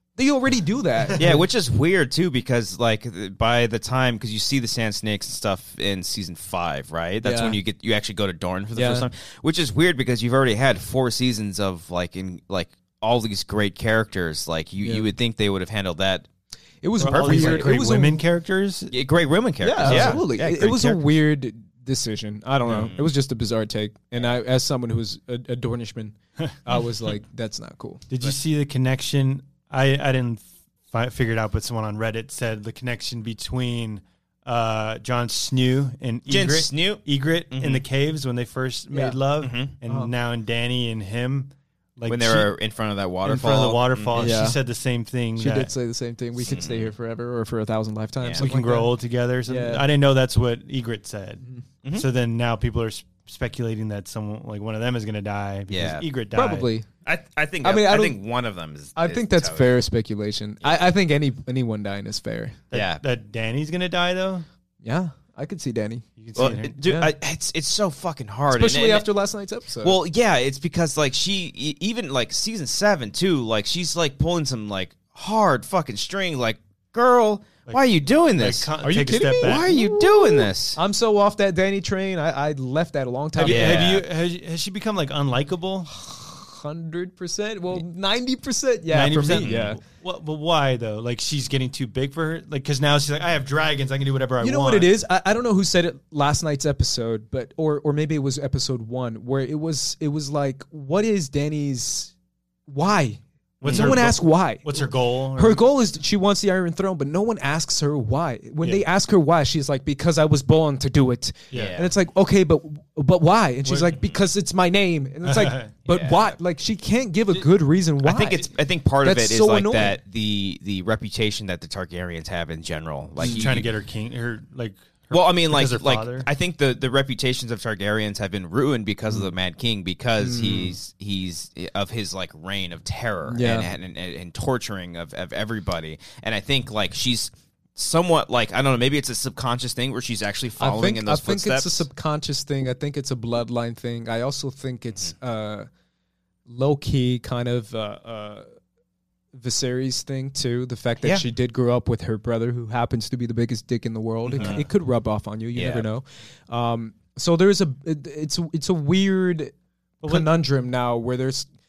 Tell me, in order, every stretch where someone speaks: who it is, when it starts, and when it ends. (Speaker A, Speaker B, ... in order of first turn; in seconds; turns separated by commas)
Speaker A: 0.2-1.4, Speaker B: 1.1-16.3, Speaker A: 7.2-7.6, Speaker A: 8.7-9.1, Speaker A: 14.8-15.1, Speaker A: 16.8-18.2, Speaker C: 17.0-18.9, Speaker B: 17.0-17.7, Speaker B: 18.9-21.0, Speaker A: 19.6-28.1, Speaker C: 19.8-20.2, Speaker C: 22.6-22.9, Speaker B: 22.7-23.1, Speaker C: 28.1-42.5, Speaker B: 36.3-37.8, Speaker A: 38.9-39.2, Speaker B: 39.4-39.7, Speaker A: 39.9-40.1, Speaker B: 42.1-44.4, Speaker C: 43.2-45.7, Speaker A: 44.1-44.6, Speaker A: 45.4-48.9, Speaker B: 46.4-46.9, Speaker B: 48.2-48.5, Speaker C: 48.4-56.7, Speaker A: 49.5-49.8, Speaker B: 55.7-56.0, Speaker A: 56.3-56.9, Speaker B: 57.0-59.8, Speaker A: 57.6-58.2, Speaker A: 59.0-62.6, Speaker C: 62.7-64.5, Speaker B: 62.7-63.0, Speaker A: 64.8-66.0, Speaker C: 66.2-66.8, Speaker B: 66.3-69.1, Speaker A: 66.8-67.1, Speaker A: 68.5-70.0, Speaker B: 69.8-78.7, Speaker C: 78.3-79.7, Speaker A: 78.8-83.9, Speaker B: 79.4-80.8, Speaker C: 83.3-85.9, Speaker B: 83.4-84.0, Speaker A: 85.9-89.8, Speaker C: 88.9-94.9, Speaker B: 89.4-89.8, Speaker A: 94.4-102.1, Speaker A: 102.7-118.5, Speaker C: 103.6-105.6, Speaker B: 103.6-104.0, Speaker C: 111.5-111.8, Speaker B: 111.5-111.9, Speaker C: 113.6-114.0, Speaker C: 115.2-115.7, Speaker B: 115.9-116.3, Speaker B: 118.0-123.7, Speaker A: 119.0-120.0, Speaker C: 123.2-126.3, Speaker A: 123.2-123.5, Speaker B: 125.1-141.8, Speaker A: 130.2-130.7, Speaker A: 133.3-133.7, Speaker A: 140.6-145.7, Speaker A: 146.5-148.4, Speaker A: 149.3-159.5, Speaker B: 154.2-154.7, Speaker C: 154.3-154.6, Speaker B: 155.5-155.9, Speaker C: 160.0-160.3, Speaker A: 160.0-161.5